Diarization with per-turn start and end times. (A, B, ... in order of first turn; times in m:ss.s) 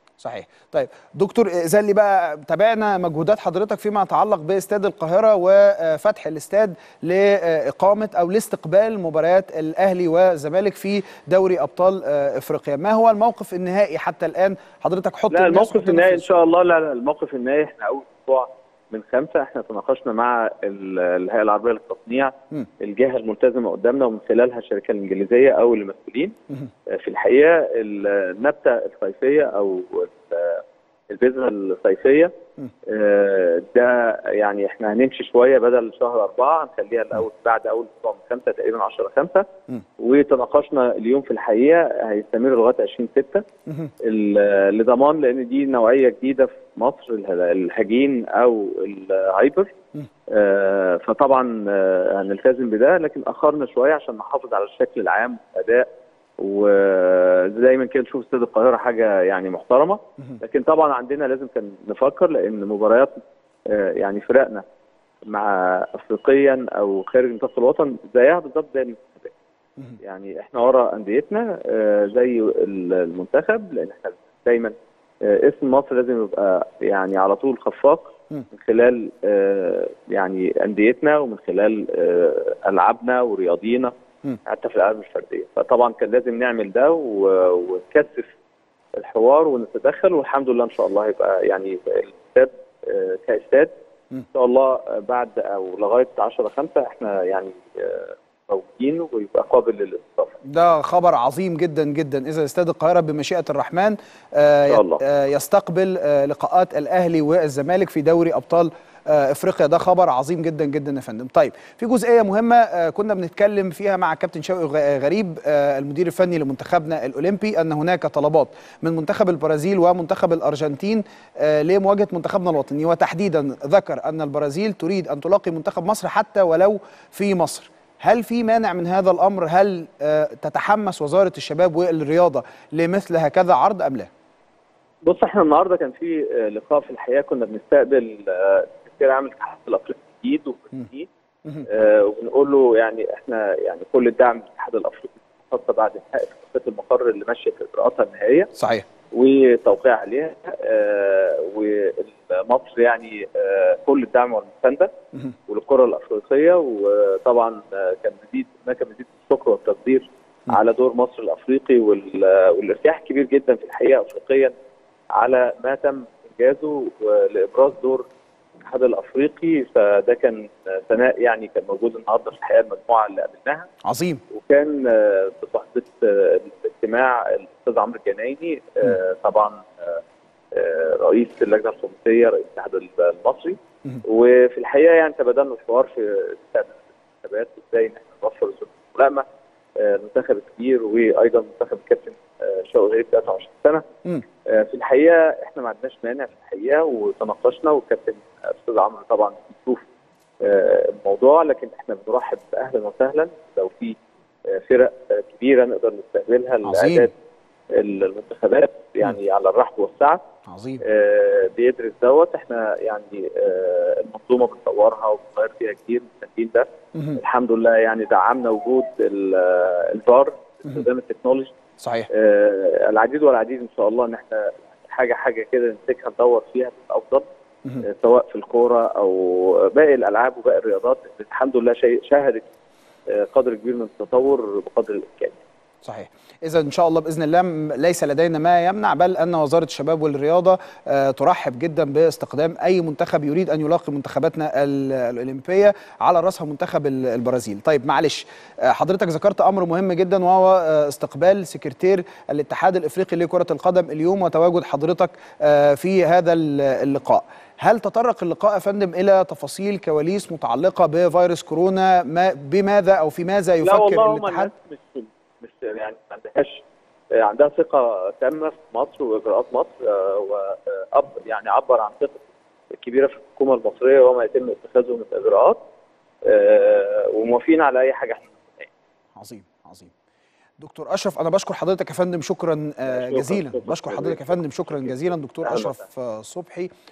0:00.2-0:16.4 A
0:15.3-0:26.4 B
0:26.9-0:32.3 B
0:32.9-0:39.5 B
0:40.0-0:43.4 B
0:44.0-0:49.7 B
0:50.3-0:55.9 B
0:56.4-1:04.6 B
1:05.3-1:09.3 B
1:10.0-1:23.9 B
1:24.5-1:28.3 B
1:29.0-1:33.7 B
1:34.3-1:40.4 B
1:40.4-2:14.1 A
1:44.7-1:45.0 B
2:15.1-2:21.1 B
2:21.7-2:28.5 B
2:28.6-2:28.9 A
2:29.1-2:34.9 B
2:35.5-2:44.5 B
2:45.2-2:48.0 B
2:48.6-2:53.7 B
2:53.8-2:54.2 A
2:54.3-3:00.0 B
3:00.5-3:09.2 B
3:09.8-3:13.9 B
3:14.5-3:19.8 B
3:20.4-3:24.0 B
3:24.5-3:27.1 B
3:26.6-3:27.1 A
3:27.7-3:30.2 B
3:30.5-3:30.8 A
3:30.8-3:41.5 B
3:41.8-3:42.1 A
3:42.1-3:47.2 B
3:47.8-3:52.5 B
3:53.1-3:55.4 B
3:55.8-4:24.5 A
4:23.6-4:26.6 B
4:27.2-4:35.6 B
4:36.2-4:38.7 B
4:39.2-4:39.9 A
4:40.6-4:46.7 A
4:42.9-4:45.8 B